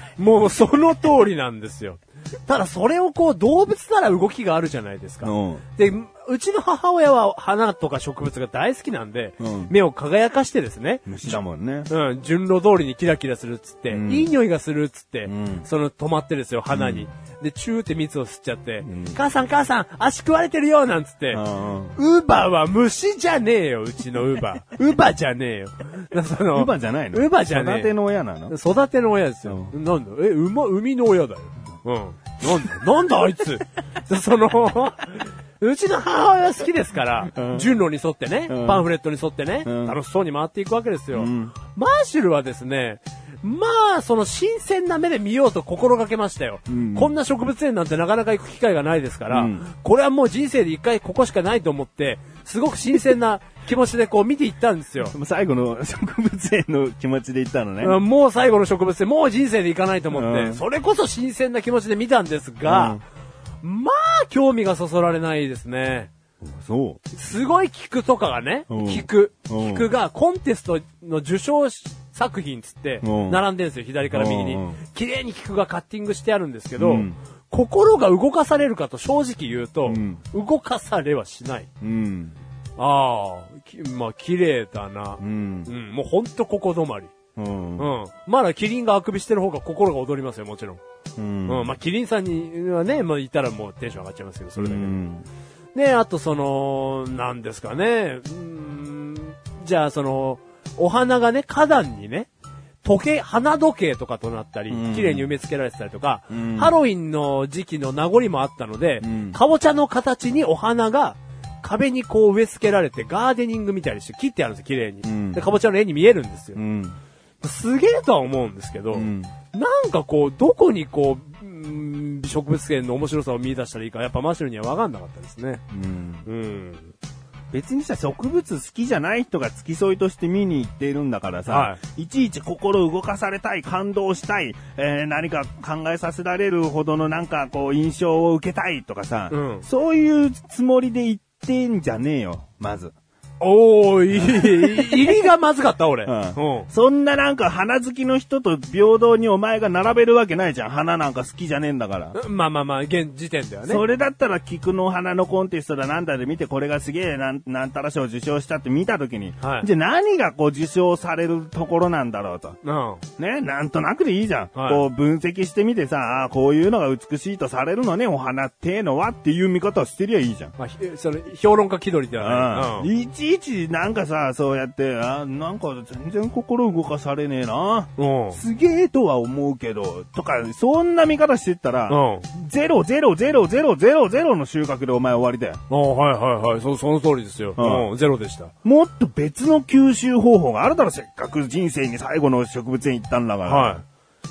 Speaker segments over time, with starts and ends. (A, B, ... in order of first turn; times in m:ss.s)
0:00.2-0:11.4 A
0:05.2-0:05.6 B
0:09.4-0:09.7 B
0:11.0-0:11.9 B
0:11.9-0:21.4 A
0:13.9-0:14.3 B
0:15.2-0:15.6 B
0:16.7-0:17.1 B
0:18.8-0:19.2 B
0:21.3-0:22.0 B
0:21.9-0:27.9 A
0:26.5-0:28.5 B
0:28.5-0:55.1 A
0:29.4-0:29.7 B
0:37.3-0:37.7 B
0:38.5-0:38.9 B
0:39.6-0:40.0 B
0:41.1-0:41.5 B
0:46.7-0:47.1 B
0:49.3-0:49.6 B
0:55.0-0:58.0 B
0:57.8-1:03.0 A
1:00.1-1:00.6 B
1:02.6-1:03.0 B
1:03.6-1:06.1 A
1:06.4-1:07.0 B
1:07.1-1:21.7 A
1:08.7-1:09.9 B
1:13.0-1:13.4 B
1:14.1-1:14.8 B
1:16.8-1:17.2 B
1:19.8-1:20.2 B
1:21.8-1:22.4 B
1:22.8-1:27.1 A
1:25.2-1:25.7 B
1:27.4-1:27.9 B
1:27.8-1:30.8 A
1:31.2-1:31.7 B
1:31.4-1:35.0 A
1:34.6-1:35.3 B
1:35.7-1:42.3 A
1:42.8-1:56.6 A
1:44.7-1:45.3 B
1:46.3-1:46.8 B
1:49.0-1:49.4 B
1:55.0-1:55.4 B
1:56.6-1:57.0 B
1:57.4-2:05.6 A
1:58.9-1:59.3 B
2:05.7-2:06.3 B
2:06.2-2:06.9 A
2:07.5-2:22.9 B
2:11.5-2:11.8 A
2:19.3-2:19.6 A
2:23.4-2:26.7 A
2:24.1-2:25.2 B
2:26.0-2:32.2 B
2:32.1-2:33.8 A
2:33.6-2:42.6 B
2:39.4-2:39.7 A
2:42.6-2:43.0 A
2:43.2-2:50.5 B
2:44.5-2:44.8 A
2:50.6-2:52.9 A
2:52.2-3:05.6 B
2:58.0-2:58.4 A
3:01.9-3:02.3 A
3:05.7-3:08.5 A
3:07.6-3:07.9 B
3:08.6-3:13.8 B
3:13.4-3:13.8 A